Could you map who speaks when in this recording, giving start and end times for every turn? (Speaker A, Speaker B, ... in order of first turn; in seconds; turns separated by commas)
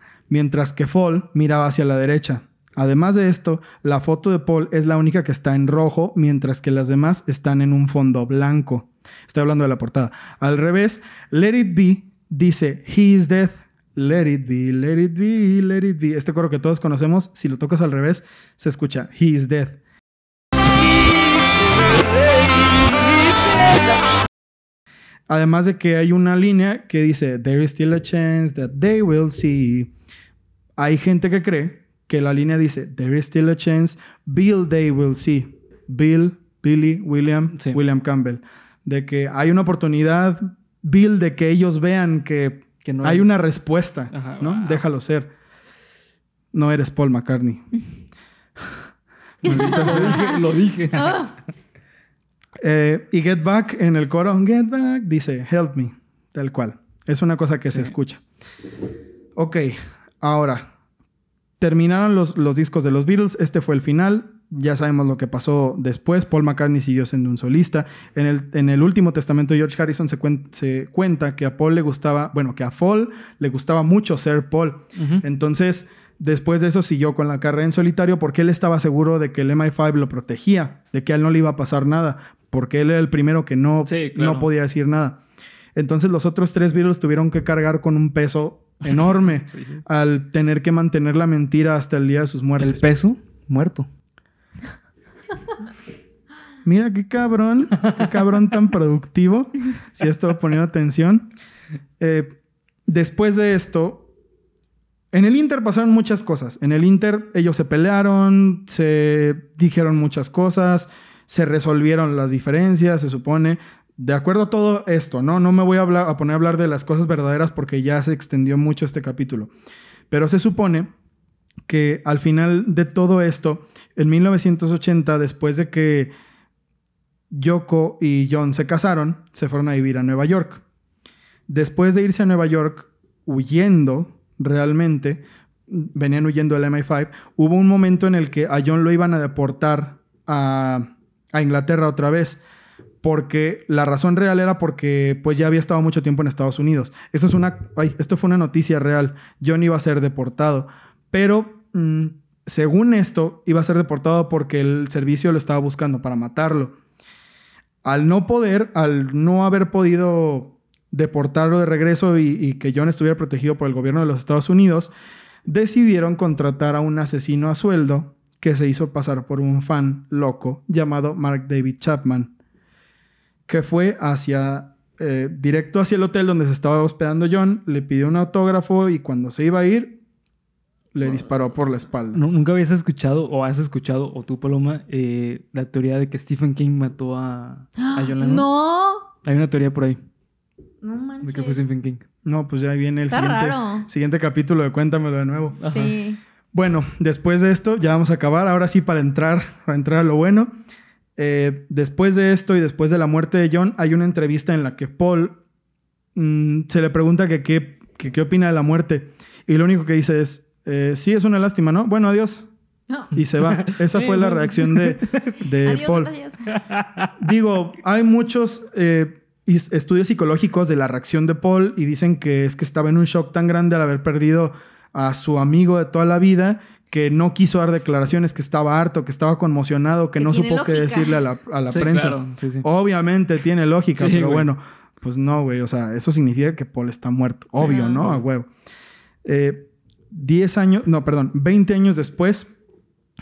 Speaker A: 0.3-19.8, Speaker A: 25.3-29.9, Speaker A: 30.8-45.3, Speaker B: 37.5-37.8, Speaker B: 42.8-43.3, Speaker B: 44.1-44.8, Speaker A: 46.5-47.7, Speaker A: 49.4-50.2, Speaker C: 49.4-50.4, Speaker B: 49.5-51.3, Speaker C: 50.9-51.3, Speaker A: 52.6-58.2, Speaker A: 59.4-60.7, Speaker A: 61.6-85.2, Speaker B: 75.0-75.2, Speaker B: 83.9-84.5, Speaker A: 85.8-92.8, Speaker B: 88.9-89.8, Speaker B: 92.6-93.9, Speaker A: 96.6-101.3, Speaker A: 102.0-104.1, Speaker A: 105.1-119.5, Speaker A: 120.1-120.9, Speaker A: 121.7-126.1, Speaker A: 127.3-130.6, Speaker A: 131.5-142.4, Speaker A: 143.0-156.8, Speaker A: 157.8-164.9, Speaker A: 165.4-172.3, Speaker A: 173.5-180.0, Speaker A: 180.9-182.2, Speaker B: 182.1-188.5, Speaker C: 187.8-189.1, Speaker B: 189.2-190.0, Speaker C: 190.8-191.6, Speaker B: 191.2-192.0, Speaker A: 192.2-195.6, Speaker C: 193.1-193.9, Speaker B: 195.6-196.0, Speaker C: 195.6-196.2, Speaker A: 196.5-200.5, Speaker A: 201.2-205.4, Speaker A: 206.2-212.5, Speaker A: 213.2-216.1, Speaker B: 213.4-215.4, Speaker C: 215.6-216.5, Speaker B: 216.5-217.1, Speaker A: 217.2-238.5, Speaker C: 230.2-231.2, Speaker B: 231.7-232.7, Speaker B: 234.0-234.5, Speaker C: 237.6-238.1, Speaker B: 237.6-238.2, Speaker A: 239.2-242.5